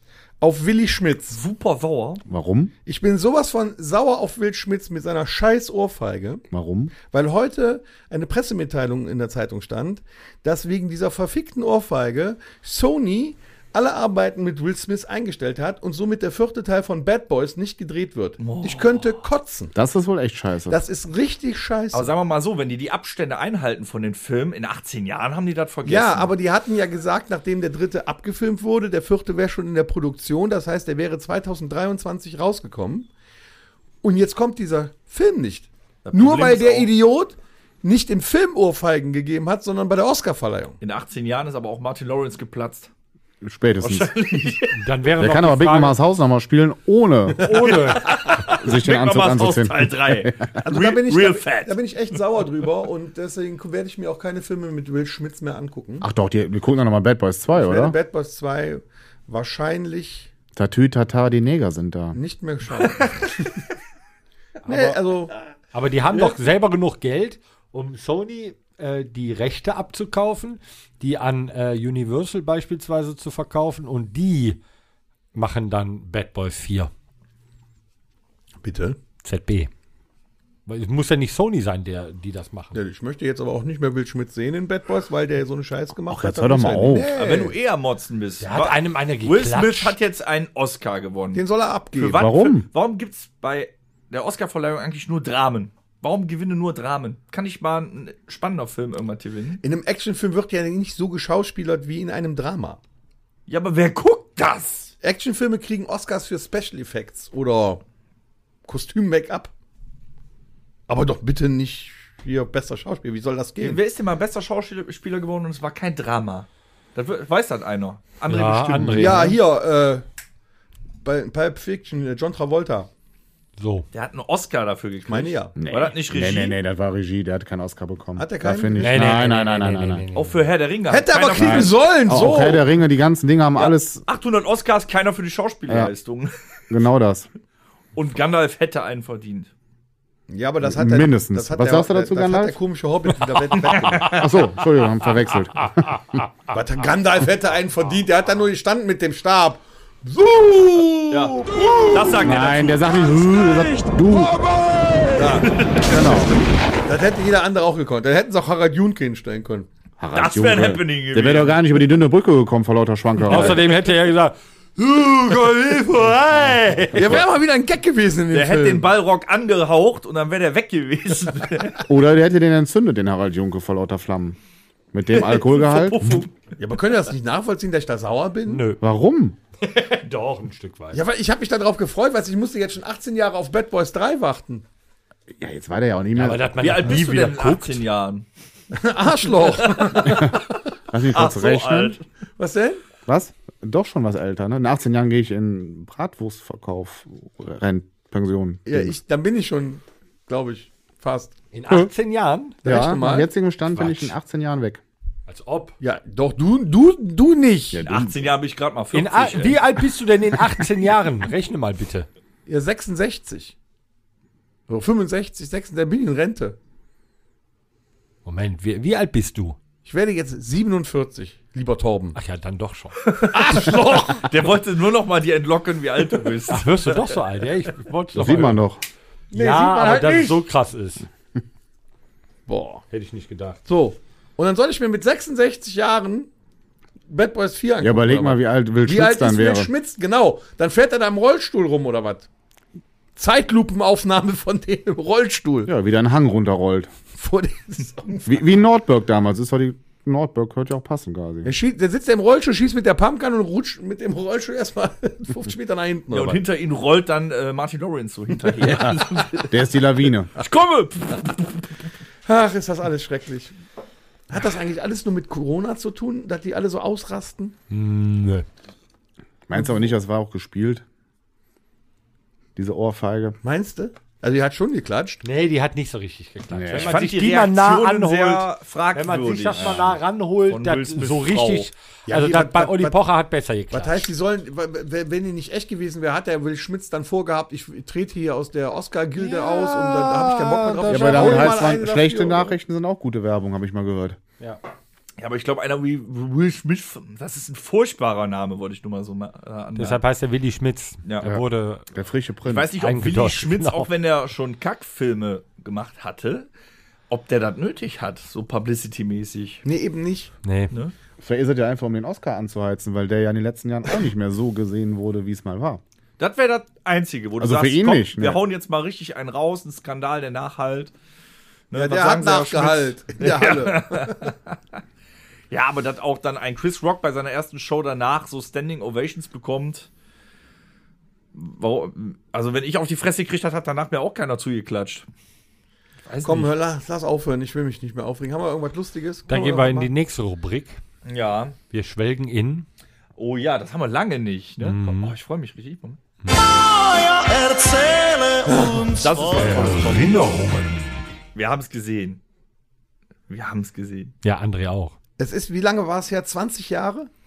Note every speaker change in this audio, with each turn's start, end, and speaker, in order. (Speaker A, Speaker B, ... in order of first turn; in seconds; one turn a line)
Speaker A: 0.4-1.4
Speaker B: 1.3-2.2
Speaker C: 2.2-2.7
Speaker A: 2.8-6.4
Speaker C: 6.5-6.9
Speaker A: 7.0-19.7
Speaker B: 18.4-19.2
Speaker C: 19.7-20.8
Speaker A: 20.7-22.1
Speaker B: 21.9-26.3
Speaker A: 25.8-33.1
Speaker A: 34.0-40.8
Speaker B: 36.0-36.9
Speaker B: 40.8-42.9
Speaker C: 43.4-44.1
Speaker B: 43.8-44.8
Speaker D: 44.7-46.0
Speaker C: 45.2-47.6
Speaker D: 47.4-48.1
Speaker A: 47.6-47.9
Speaker B: 47.7-51.8
Speaker C: 48.4-50.5
Speaker A: 50.6-56.1
Speaker C: 56.0-58.0
Speaker A: 57.5-60.3
Speaker C: 60.5-62.2
Speaker A: 62.1-63.4
Speaker D: 64.6-65.0
Speaker A: 64.6-65.3
Speaker D: 65.7-74.6
Speaker D: 75.3-76.9
Speaker A: 78.6-79.0
Speaker D: 79.2-79.7
Speaker D: 80.7-82.8
Speaker A: 82.7-87.5
Speaker C: 86.1-87.1
Speaker B: 87.1-99.6
Speaker D: 88.4-90.0
Speaker A: 91.3-92.2
Speaker C: 92.1-92.7
Speaker A: 99.6-102.8
Speaker B: 103.5-104.9
Speaker A: 105.0-107.8
Speaker A: 108.7-109.5
Speaker A: 110.9-113.8
Speaker B: 113.6-119.3
Speaker D: 118.3-119.4
Speaker A: 119.0-120.0
Speaker A: 121.0-122.9
Speaker D: 123.6-123.9
Speaker B: 123.9-126.6
Speaker A: 125.1-125.5
Speaker C: 125.6-130.0
Speaker A: 128.2-129.1
Speaker D: 128.8-130.4
Speaker B: 130.1-132.0
Speaker A: 130.9-132.6
Speaker C: 131.3-134.0
Speaker B: 133.6-136.3
Speaker C: 136.7-137.3
Speaker B: 137.9-139.5
Speaker A: 140.3-144.5
Speaker C: 140.6-142.6
Speaker B: 143.5-144.2
Speaker C: 143.9-146.2
Speaker A: 146.5-152.2
Speaker B: 151.1-153.6
Speaker C: 152.2-154.4
Speaker B: 155.1-156.3
Speaker A: 155.1-156.3
Speaker C: 155.9-156.4
Speaker A: 156.8-159.7
Speaker C: 160.0-163.6
Speaker B: 160.1-161.6
Speaker D: 163.2-167.2
Speaker A: 166.9-168.9
Speaker B: 168.3-171.8
Speaker C: 171.9-174.4
Speaker C: 174.9-176.3
Speaker B: 175.1-176.3
Speaker A: 176.6-178.7
Speaker D: 178.4-178.8
Speaker C: 178.8-179.4
Speaker D: 179.6-181.0
Speaker A: 180.9-184.6
Speaker C: 185.3-186.9
Speaker D: 186.2-187.8
Speaker B: 186.6-188.2
Speaker A: 188.7-190.3
Speaker B: 189.4-190.4
Speaker C: 190.0-190.4
Speaker C: 190.9-191.9
Speaker B: 191.1-192.0
Speaker A: 192.4-192.8
Speaker C: 193.1-198.9
Speaker A: 198.6-201.3
Speaker D: 201.5-202.6
Speaker A: 202.6-203.3
Speaker C: 202.6-204.8
Speaker D: 203.7-204.1
Speaker D: 205.3-205.8
Speaker A: 205.8-207.8
Speaker C: 207.7-208.2
Speaker B: 207.8-209.6
Speaker D: 208.9-212.1
Speaker A: 212.4-213.5
Speaker A: 214.7-216.6
Speaker D: 218.2-219.6
Speaker A: 219.8-222.2
Speaker D: 222.1-223.0
Speaker B: 223.0-227.2
Speaker A: 223.3-224.3
Speaker D: 226.5-228.6
Speaker C: 228.1-228.8
Speaker A: 229.3-230.4
Speaker D: 229.3-231.1
Speaker A: 232.5-232.8
Speaker D: 232.9-233.6
Speaker A: 233.7-236.3
Speaker A: 237.1-242.3
Speaker C: 237.8-239.7
Speaker A: 243.2-245.7
Speaker C: 245.7-246.9
Speaker A: 247.1-248.4
Speaker C: 248.2-251.5
Speaker A: 251.4-256.4
Speaker B: 256.1-259.5
Speaker C: 259.5-260.3
Speaker B: 260.4-261.6
Speaker A: 262.2-263.5
Speaker A: 264.3-267.5
Speaker D: 267.7-268.4
Speaker C: 269.5-270.8
Speaker C: 272.6-273.4
Speaker A: 273.4-275.2
Speaker D: 275.2-284.1
Speaker C: 276.5-277.0
Speaker B: 276.8-279.9
Speaker C: 279.5-279.9
Speaker B: 280.5-281.7
Speaker A: 282.1-283.0
Speaker A: 283.7-292.6
Speaker D: 289.2-291.7
Speaker C: 290.9-294.2
Speaker B: 295.2-300.0
Speaker D: 299.8-301.9
Speaker C: 301.2-302.7
Speaker B: 302.4-306.5
Speaker D: 302.8-303.9
Speaker B: 307.1-309.6
Speaker A: 309.6-310.3
Speaker D: 310.4-310.7
Speaker C: 311.2-315.8
Speaker B: 316.2-320.9
Speaker C: 317.4-318.4
Speaker B: 321.7-324.6
Speaker A: 321.7-324.3
Speaker B: 325.5-329.9
Speaker B: 331.3-335.1
Speaker B: 336.1-336.5
Speaker A: 336.2-339.9
Speaker D: 339.3-340.8
Speaker B: 341.0-341.6
Speaker D: 341.7-342.6
Speaker B: 343.2-346.0
Speaker D: 344.6-345.1
Speaker D: 346.2-346.5
Speaker E: 346.3-350.9
Speaker A: 348.5-348.8
Speaker B: 349.0-350.2
Speaker D: 349.4-349.9
Speaker B: 351.3-352.2
Speaker B: 353.3-354.1
Speaker D: 354.2-354.9
Speaker A: 355.2-357.1